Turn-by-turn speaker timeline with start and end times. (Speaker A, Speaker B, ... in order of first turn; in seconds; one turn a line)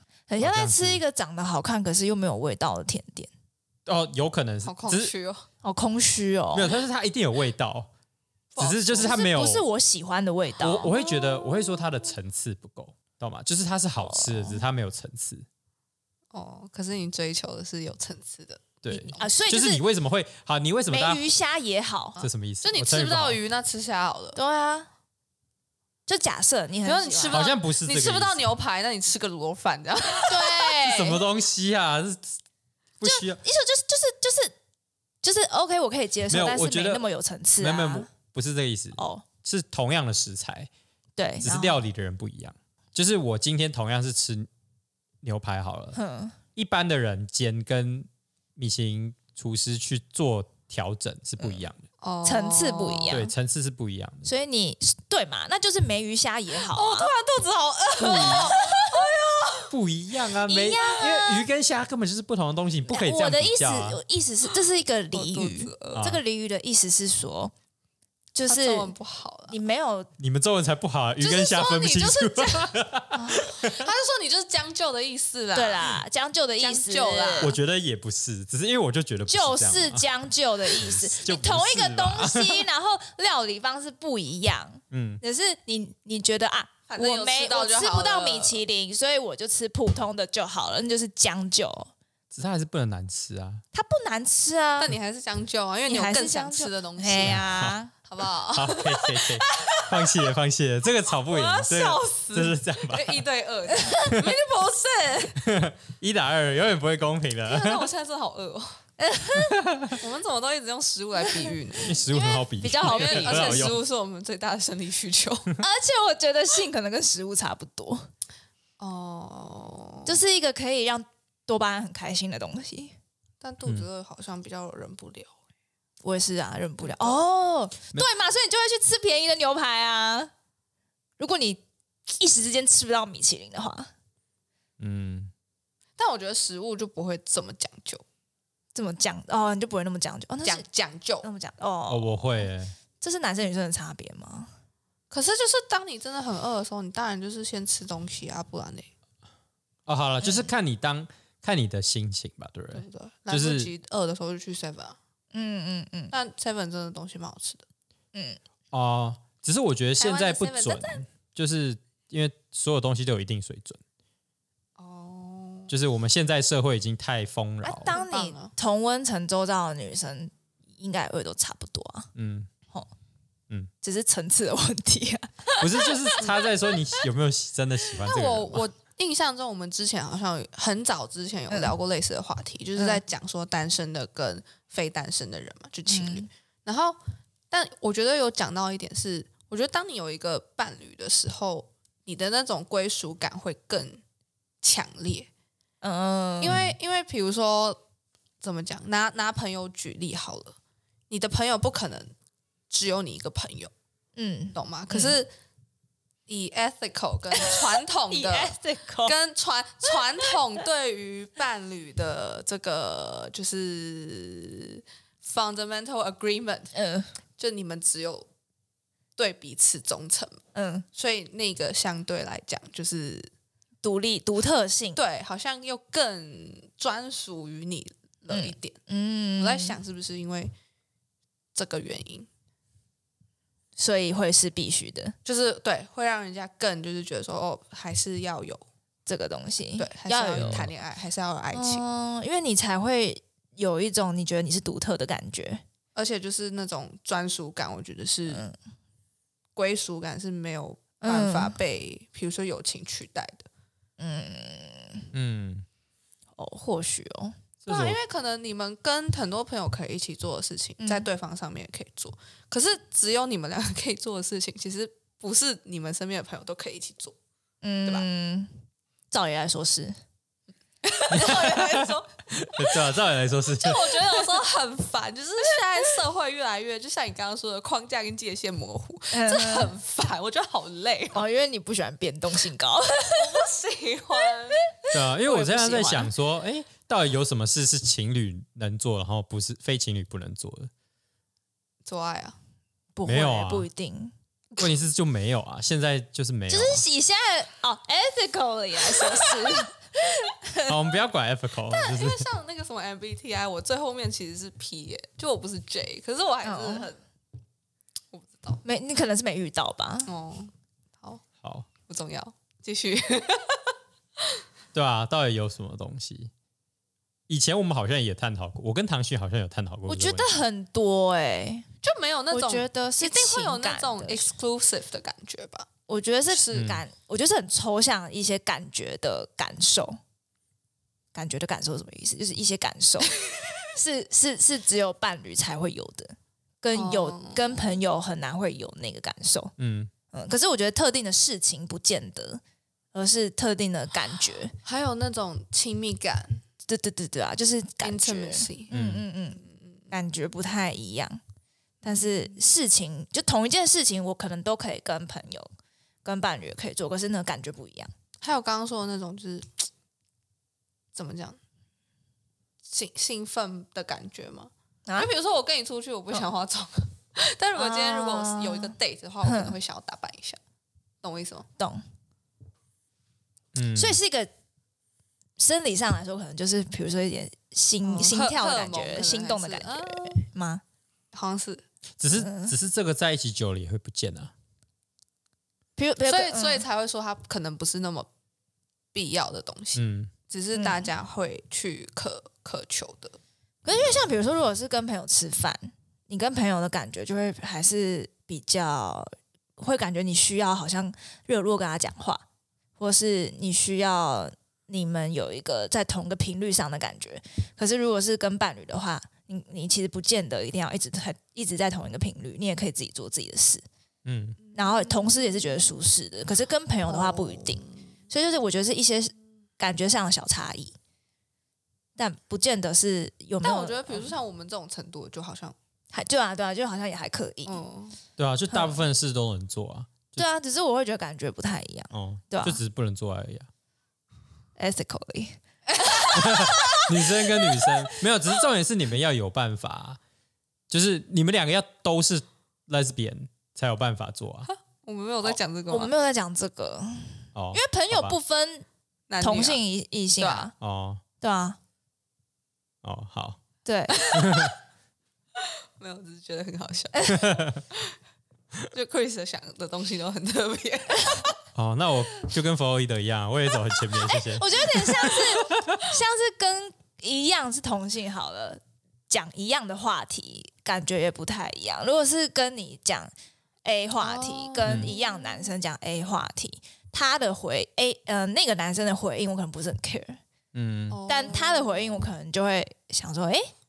Speaker A: 0.3-3.3
Speaker B: 0.4-1.0
Speaker B: 3.9-5.1
Speaker C: 4.7-5.5
Speaker A: 5.6-6.8
Speaker B: 6.5-7.9
Speaker C: 8.6-9.2
Speaker B: 8.6-9.7
Speaker A: 9.0-10.9
Speaker B: 10.6-15.5
Speaker A: 14.0-14.6
Speaker C: 16.3-19.3
Speaker B: 18.8-21.3
Speaker A: 19.2-19.8
Speaker A: 20.9-22.2
Speaker C: 22.2-24.4
Speaker B: 22.2-23.4
Speaker A: 24.4-24.9
Speaker A: 26.1-27.4
Speaker C: 26.9-30.9
Speaker B: 27.3-28.4
Speaker A: 30.3-31.2
Speaker B: 30.9-32.3
Speaker B: 33.0-33.4
Speaker A: 33.0-34.5
Speaker A: 35.2-38.1
Speaker B: 36.3-37.1
Speaker B: 37.6-40.7
Speaker A: 39.0-39.3
Speaker A: 41.2-41.8
Speaker B: 41.4-44.5
Speaker B: 45.2-46.0
Speaker A: 46.0-46.4
Speaker B: 46.5-51.8
Speaker C: 52.0-53.2
Speaker A: 52.2-53.3
Speaker B: 53.1-54.3
Speaker A: 54.2-57.1
Speaker C: 56.6-59.7
Speaker B: 58.0-58.5
Speaker A: 58.0-59.0
Speaker B: 59.7-64.0
Speaker A: 60.5-61.5
Speaker A: 62.9-67.5
Speaker C: 65.1-66.1
Speaker B: 65.9-66.2
Speaker A: 68.3-68.9
Speaker C: 68.5-69.6
Speaker A: 69.5-70.1
Speaker B: 70.2-73.9
Speaker C: 71.2-72.8
Speaker A: 73.1-73.5
Speaker C: 73.5-76.0
Speaker A: 75.5-77.6
Speaker C: 76.6-77.6
Speaker B: 77.4-80.1
Speaker A: 79.3-91.9
Speaker B: 80.7-82.7
Speaker B: 84.9-85.2
Speaker C: 86.9-88.6
Speaker B: 92.3-93.6
Speaker A: 93.7-95.0
Speaker C: 94.8-97.5
Speaker A: 95.9-97.9
Speaker B: 97.2-97.8
Speaker C: 98.1-99.9
Speaker B: 98.5-103.2
Speaker C: 101.2-105.4
Speaker A: 103.7-104.1
Speaker B: 105.4-107.9
Speaker C: 107.5-108.8
Speaker A: 109.0-109.7
Speaker B: 109.4-110.0
Speaker C: 110.0-112.0
Speaker A: 111.2-111.5
Speaker B: 111.8-113.8
Speaker A: 112.1-113.7
Speaker C: 112.8-115.6
Speaker A: 115.6-118.1
Speaker C: 118.8-120.2
Speaker A: 120.1-123.0
Speaker C: 123.4-125.3
Speaker A: 126.0-130.3
Speaker C: 126.8-127.2
Speaker A: 131.2-133.9
Speaker B: 134.8-135.3
Speaker C: 136.0-138.0
Speaker A: 138.8-140.7
Speaker C: 140.4-141.3
Speaker A: 141.2-142.5
Speaker B: 141.9-142.8
Speaker A: 143.0-144.5
Speaker C: 145.1-148.9
Speaker B: 149.9-153.7
Speaker A: 150.2-150.5
Speaker C: 152.7-155.0
Speaker A: 155.3-156.1
Speaker C: 156.1-157.7
Speaker A: 158.1-158.4
Speaker B: 158.7-163.8
Speaker C: 160.0-161.0
Speaker C: 164.8-165.7
Speaker B: 165.7-167.9
Speaker A: 167.6-172.1
Speaker C: 167.9-168.5
Speaker B: 172.2-172.5
Speaker A: 173.8-176.8
Speaker B: 175.6-178.7
Speaker C: 178.0-187.0
Speaker A: 181.5-181.8
Speaker A: 182.8-183.0
Speaker A: 185.9-186.3
Speaker C: 187.5-194.0
Speaker C: 194.6-195.3
Speaker A: 195.8-196.6
Speaker C: 196.4-197.8
Speaker B: 196.5-196.8
Speaker C: 198.4-200.6
Speaker C: 201.1-202.1
Speaker C: 202.7-203.7
Speaker A: 204.2-205.2
Speaker C: 204.5-205.3
Speaker C: 206.3-216.7
Speaker A: 207.3-209.2
Speaker A: 209.9-210.6
Speaker A: 216.7-217.1
Speaker C: 217.4-218.3
Speaker C: 219.2-220.4
Speaker A: 220.5-220.9
Speaker C: 220.9-223.3
Speaker A: 223.8-225.0
Speaker C: 224.9-228.8
Speaker A: 228.3-229.8
Speaker C: 229.4-230.5
Speaker C: 231.6-232.3
Speaker A: 233.8-235.2
Speaker C: 235.2-238.7
Speaker A: 239.1-240.7
Speaker C: 239.8-241.8
Speaker B: 240.4-240.7
Speaker A: 241.5-245.6
Speaker C: 245.9-248.4
Speaker A: 248.3-248.6
Speaker C: 249.6-253.5
Speaker A: 251.0-251.6
Speaker A: 254.0-255.1
Speaker B: 255.1-255.7
Speaker A: 256.4-257.4
Speaker B: 257.6-258.0
Speaker C: 257.7-267.2
Speaker A: 260.8-261.1
Speaker A: 267.6-270.0
Speaker C: 270.8-272.1
Speaker B: 271.1-273.9
Speaker C: 273.6-281.2
Speaker A: 279.1-279.7
Speaker A: 281.1-283.4
Speaker C: 283.1-284.6
Speaker A: 284.7-286.1
Speaker B: 284.9-290.7
Speaker C: 291.9-292.4
Speaker A: 292.9-294.1
Speaker B: 293.1-293.7
Speaker B: 294.6-296.8
Speaker A: 296.5-300.7
Speaker C: 299.0-299.3
Speaker B: 300.6-302.2
Speaker C: 301.7-307.0
Speaker A: 306.4-306.9
Speaker C: 308.1-308.6
Speaker A: 308.6-310.1
Speaker C: 310.1-311.2
Speaker B: 311.4-311.7
Speaker C: 311.9-313.7
Speaker B: 314.7-316.3
Speaker B: 317.3-320.4
Speaker A: 319.9-321.7
Speaker C: 321.8-325.7
Speaker A: 322.3-324.3
Speaker A: 325.9-330.0
Speaker C: 326.3-326.8
Speaker B: 326.5-326.8
Speaker A: 331.1-333.2
Speaker A: 333.7-339.5
Speaker C: 336.7-337.8
Speaker B: 339.6-339.9
Speaker A: 340.1-342.4
Speaker A: 342.9-344.5
Speaker C: 344.6-346.4
Speaker A: 346.7-351.2
Speaker C: 347.8-348.7
Speaker B: 348.7-349.1
Speaker C: 349.4-349.9
Speaker C: 351.8-352.5
Speaker A: 351.8-355.5
Speaker A: 356.0-357.9
Speaker C: 358.2-359.7
Speaker C: 360.9-361.4
Speaker C: 362.6-370.4
Speaker A: 367.6-369.6
Speaker C: 371.0-371.5
Speaker A: 371.6-371.8
Speaker B: 373.5-374.0
Speaker A: 373.8-374.3
Speaker A: 375.4-380.6
Speaker C: 377.8-380.2
Speaker C: 381.1-381.6
Speaker B: 382.0-384.3
Speaker A: 382.1-382.5
Speaker A: 385.8-386.7
Speaker C: 386.1-388.1
Speaker C: 388.9-393.2
Speaker B: 389.8-390.1
Speaker A: 390.5-390.9
Speaker A: 393.6-402.2
Speaker A: 402.8-413.6
Speaker B: 414.1-414.4
Speaker C: 414.4-415.8
Speaker A: 414.6-420.8
Speaker C: 416.9-417.8
Speaker A: 422.0-424.1
Speaker C: 423.4-425.6
Speaker A: 425.9-427.6
Speaker C: 427.5-428.0
Speaker B: 428.2-430.2
Speaker A: 428.5-428.8
Speaker A: 430.2-432.6
Speaker B: 431.9-433.5
Speaker A: 434.6-436.8
Speaker C: 435.7-436.1
Speaker B: 436.1-440.0
Speaker B: 440.7-444.5
Speaker C: 444.5-445.9
Speaker A: 445.7-448.7
Speaker B: 447.4-448.1
Speaker C: 449.1-449.6
Speaker A: 449.2-450.5
Speaker C: 450.2-450.5
Speaker B: 450.6-451.0
Speaker A: 451.2-451.6
Speaker B: 452.8-453.4
Speaker A: 453.6-454.1
Speaker C: 453.9-454.4
Speaker B: 454.1-454.5
Speaker C: 455.4-458.0
Speaker B: 457.1-457.6
Speaker C: 458.7-461.4
Speaker B: 461.6-465.2
Speaker A: 464.1-473.1
Speaker A: 473.6-480.2
Speaker C: 474.0-475.6
Speaker B: 474.6-474.9
Speaker B: 480.5-481.0
Speaker C: 480.9-482.1
Speaker A: 481.1-483.5